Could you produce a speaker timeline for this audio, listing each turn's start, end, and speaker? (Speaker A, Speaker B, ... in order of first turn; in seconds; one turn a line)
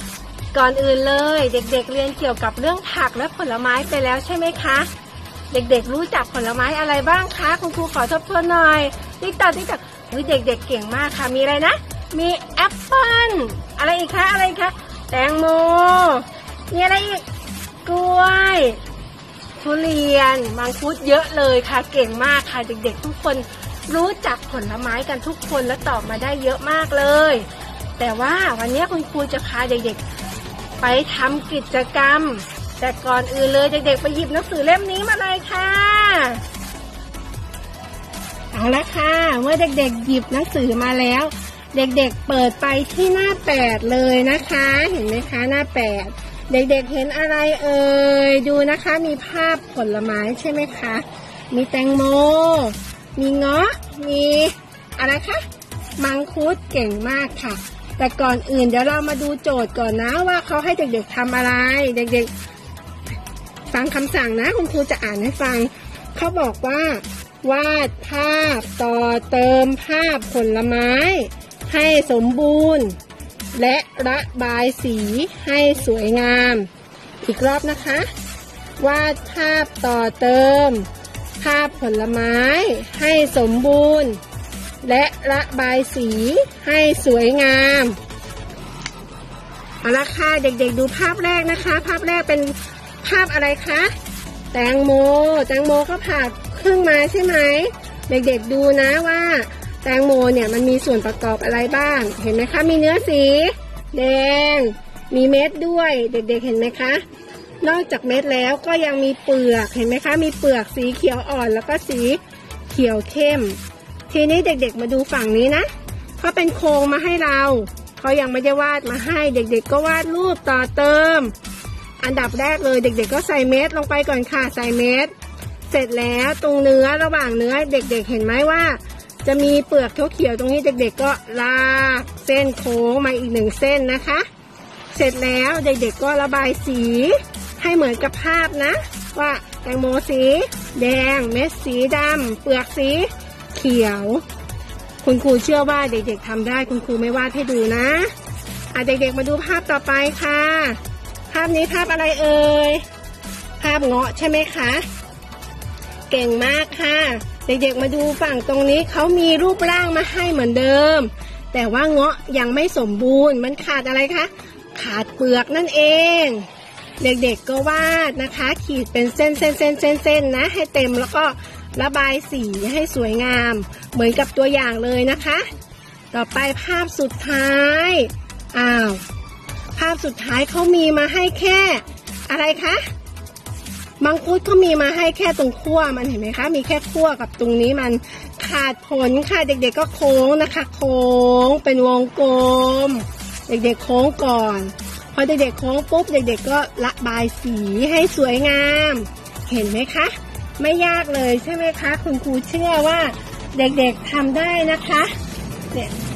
Speaker A: 0.5-4.9
Speaker A: 5.5-17.2
Speaker A: 17.9-18.8
Speaker A: 19.6-27.5
Speaker A: 28.0-30.0
Speaker A: 30.8-36.4
Speaker A: 38.5-55.4
Speaker A: 56.0-62.3
Speaker A: 63.7-73.0
Speaker A: 73.5-76.7
Speaker A: 77.2-78.1
Speaker A: 78.8-80.9
Speaker A: 81.4-84.2
Speaker A: 84.8-88.0
Speaker A: 89.8-93.9
Speaker A: 94.5-107.0
Speaker A: 107.6-113.6
Speaker A: 114.1-115.7
Speaker A: 116.2-121.3
Speaker A: 122.0-125.1
Speaker A: 125.7-134.3
Speaker A: 134.9-144.2
Speaker A: 145.0-148.1
Speaker A: 148.7-150.8
Speaker A: 151.3-152.8
Speaker A: 153.6-154.8
Speaker A: 156.1-166.5
Speaker A: 167.0-175.5
Speaker A: 176.1-179.0
Speaker A: 179.8-182.8
Speaker A: 184.0-205.1